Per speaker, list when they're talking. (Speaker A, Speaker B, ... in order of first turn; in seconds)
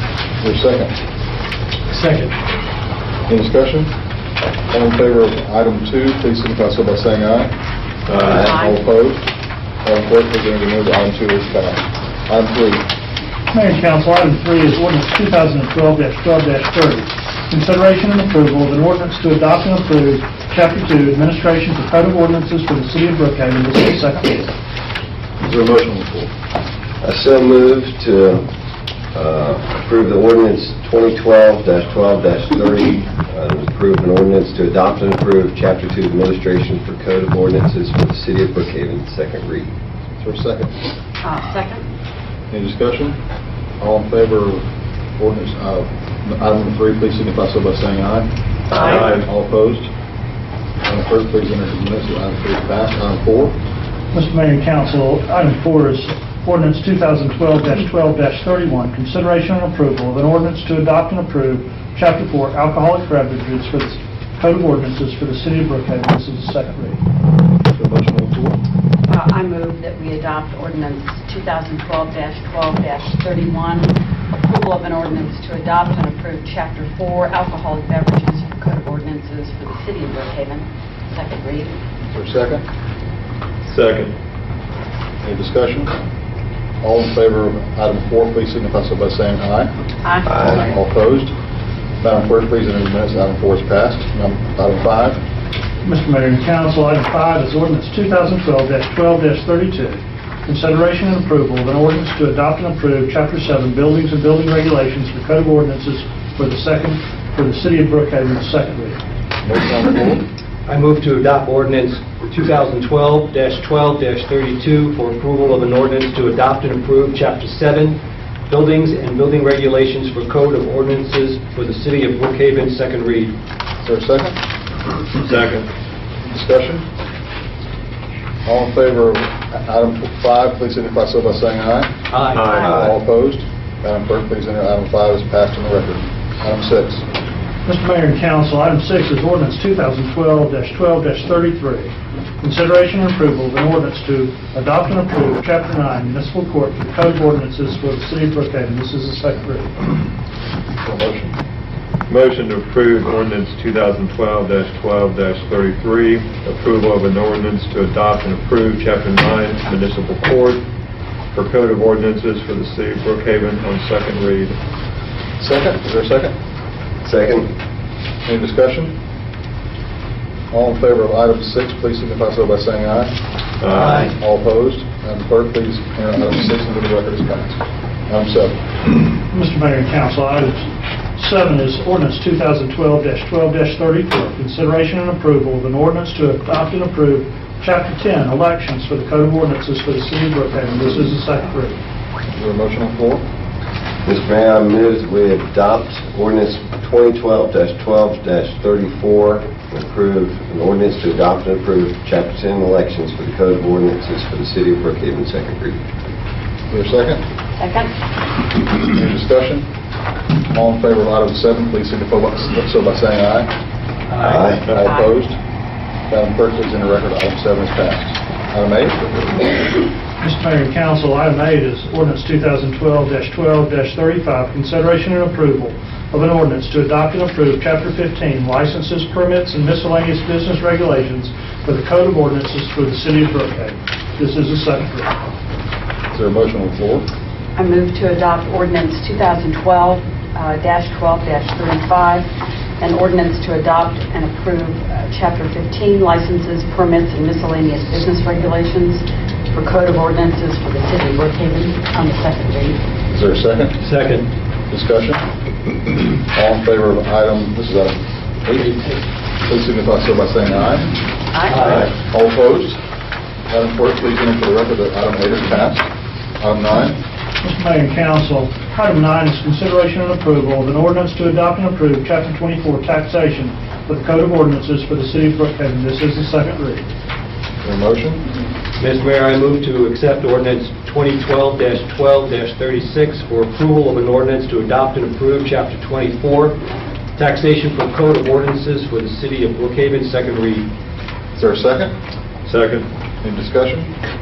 Speaker A: 0.4-0.9, 3.3-3.9, 4.7-7.5, 8.2-9.3, 9.8-12.8, 25.4-26.3, 40.2-40.8, 42.5-43.2, 43.8-44.6, 45.2-49.9, 50.8-53.6, 67.7-68.6, 82.1-82.6, 85.2-85.9, 86.8-89.7, 90.3-91.3, 92.0-95.2, 109.4-110.2, 123.8-124.3, 126.2-126.8, 128.4-131.9, 132.6-137.0, 150.8-151.4, 165.4-166.3, 168.2-168.9, 170.5-173.2, 174.0-178.6, 192.3-193.2, 206.7-207.2, 208.8-209.7, 210.5-213.5, 214.6-215.4, 216.1-219.0, 236.1-237.1, 253.1-253.8, 254.7-255.2, 256.3-258.8, 259.4-261.0, 261.7-262.8, 263.5-265.9, 266.4-267.0, 277.6-278.2, 291.4-291.9, 293.2-293.9
Speaker B: 1.9-2.3, 110.7-118.0, 118.5-123.3, 132.1-132.9, 173.7-174.1, 214.1-214.5, 253.8-254.3, 261.5-261.9, 278.8-286.6, 287.2-290.7
Speaker C: 8.1-8.5, 48.8-49.2, 83.6-84.1, 125.2-125.7, 132.3-132.7, 152.1-160.6, 161.3-164.6, 173.6-174.1, 292.4-292.9
Speaker D: 8.2-8.8, 41.2-41.9, 48.7-49.1, 69.1-81.7, 90.0-90.8, 132.6-132.9, 207.6-207.9, 214.8-215.1, 237.6-242.2, 242.8-252.8, 261.3-261.7
Speaker E: 13.5-24.5, 54.1-67.0, 95.8-109.0, 137.6-149.8, 179.3-191.8, 220.2-235.2, 267.4-276.9
Speaker F: 27.0-28.5, 29.1-39.7, 167.0-167.5, 194.0-205.8, 214.2-214.7